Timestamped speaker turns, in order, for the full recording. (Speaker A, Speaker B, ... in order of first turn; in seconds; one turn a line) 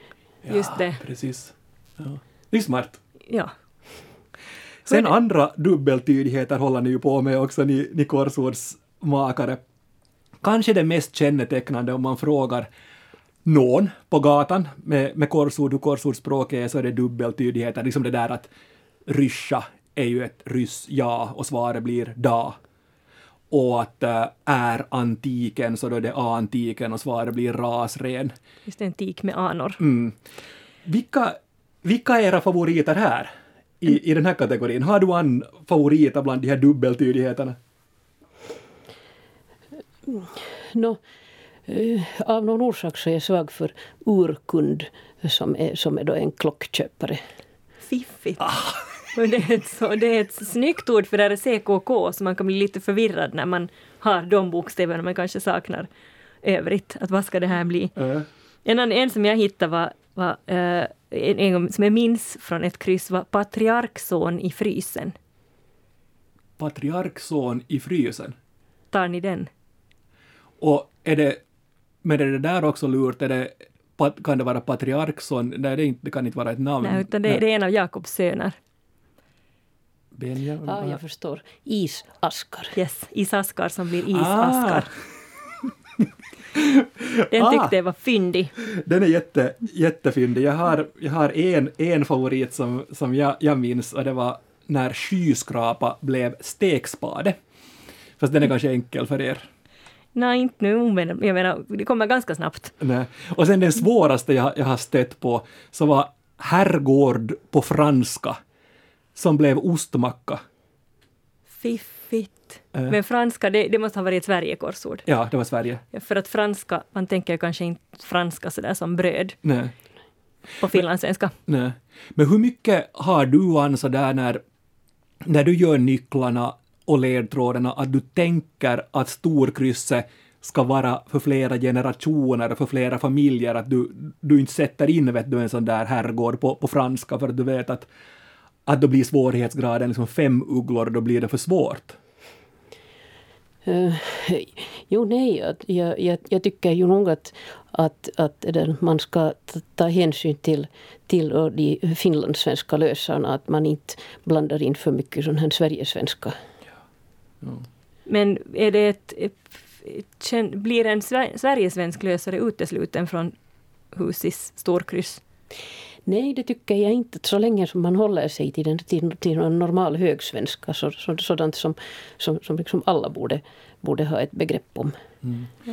Speaker A: 0.4-3.0
Speaker B: 0.5-1.0
Speaker A: 4.8-9.6
Speaker A: 10.4-12.7
Speaker A: 13.4-18.5
Speaker A: 19.1-22.6
Speaker A: 23.5-28.3
Speaker B: 28.7-29.8
Speaker A: 29.8-30.2
Speaker A: 30.9-37.6
Speaker C: 40.1-41.0
Speaker C: 41.7-47.2
Speaker B: 47.9-48.5
Speaker A: 48.4-48.8
Speaker B: 49.1-55.9
Speaker B: 56.4-58.0
Speaker A: 58.0-58.3
Speaker B: 58.6-65.2
Speaker A: 66.6-68.4
Speaker B: 68.9-69.5
Speaker A: 70.6-71.4
Speaker A: 72.0-77.4
Speaker B: 76.8-78.6
Speaker A: 80.2-81.0
Speaker C: 80.6-82.8
Speaker B: 82.8-84.9
Speaker A: 84.1-84.9
Speaker A: 86.5-87.7
Speaker B: 87.3-88.6
Speaker A: 88.6-97.4
Speaker A: 98.2-99.5
Speaker B: 100.2-102.7
Speaker A: 102.8-108.4
Speaker A: 109.2-110.4
Speaker B: 111.6-115.1
Speaker A: 115.1-115.8
Speaker B: 115.9-119.4
Speaker A: 119.4-119.7
Speaker B: 120.6-121.3
Speaker A: 121.5-124.4
Speaker A: 125.2-137.9
Speaker A: 138.7-142.0
Speaker C: 143.7-156.3
Speaker B: 158.1-163.3
Speaker B: 163.9-165.2
Speaker C: 166.1-174.9
Speaker A: 175.2-175.5